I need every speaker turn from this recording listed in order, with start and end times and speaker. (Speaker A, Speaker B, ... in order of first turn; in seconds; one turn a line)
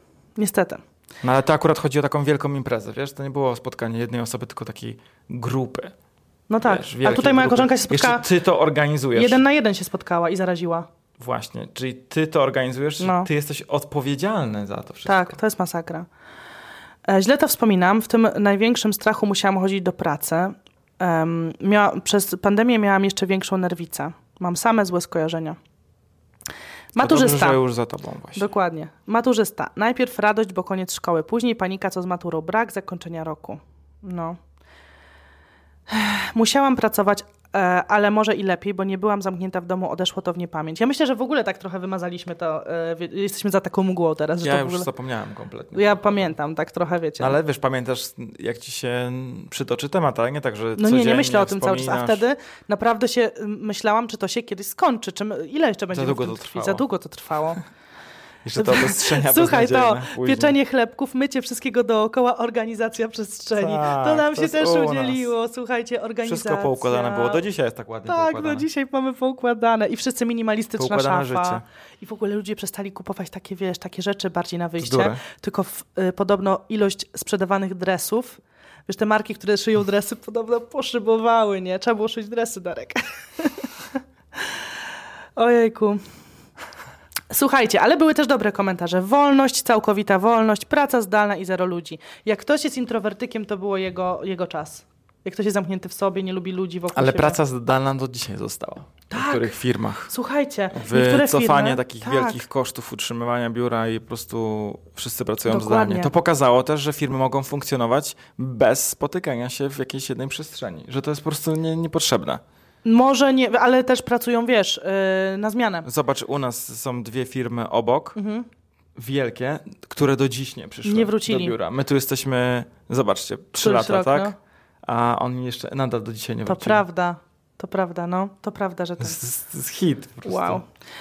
Speaker A: 0.4-0.8
Speaker B: 1.2-5.9
Speaker A: 6.5-8.2
Speaker B: 6.6-9.4
Speaker A: 9.1-10.9
Speaker B: 11.2-15.4
Speaker A: 13.0-13.3
Speaker A: 15.0-16.1
Speaker A: 17.1-25.6
Speaker A: 26.9-27.6
Speaker B: 27.0-28.5
Speaker A: 28.3-34.4
Speaker A: 35.9-44.9
Speaker B: 44.4-46.3
Speaker A: 45.7-47.4
Speaker B: 47.2-52.2
Speaker A: 50.8-57.6
Speaker B: 55.9-56.8
Speaker B: 58.4-60.5
Speaker A: 58.5-67.4
Speaker B: 63.5-65.3
Speaker B: 66.2-68.7
Speaker A: 68.0-83.7
Speaker B: 70.8-71.6
Speaker B: 74.8-75.2
Speaker A: 84.4-84.7
Speaker A: 85.3-86.0
Speaker A: 87.3-97.4
Speaker B: 96.9-100.1
Speaker A: 99.1-99.5
Speaker A: 100.1-102.4
Speaker B: 100.7-112.4
Speaker A: 105.5-106.1
Speaker A: 112.8-115.9
Speaker B: 115.8-118.2
Speaker A: 118.2-118.5
Speaker B: 118.9-126.8
Speaker A: 120.8-121.5
Speaker A: 123.5-124.3
Speaker A: 126.5-129.2
Speaker B: 129.0-130.6
Speaker A: 130.2-130.6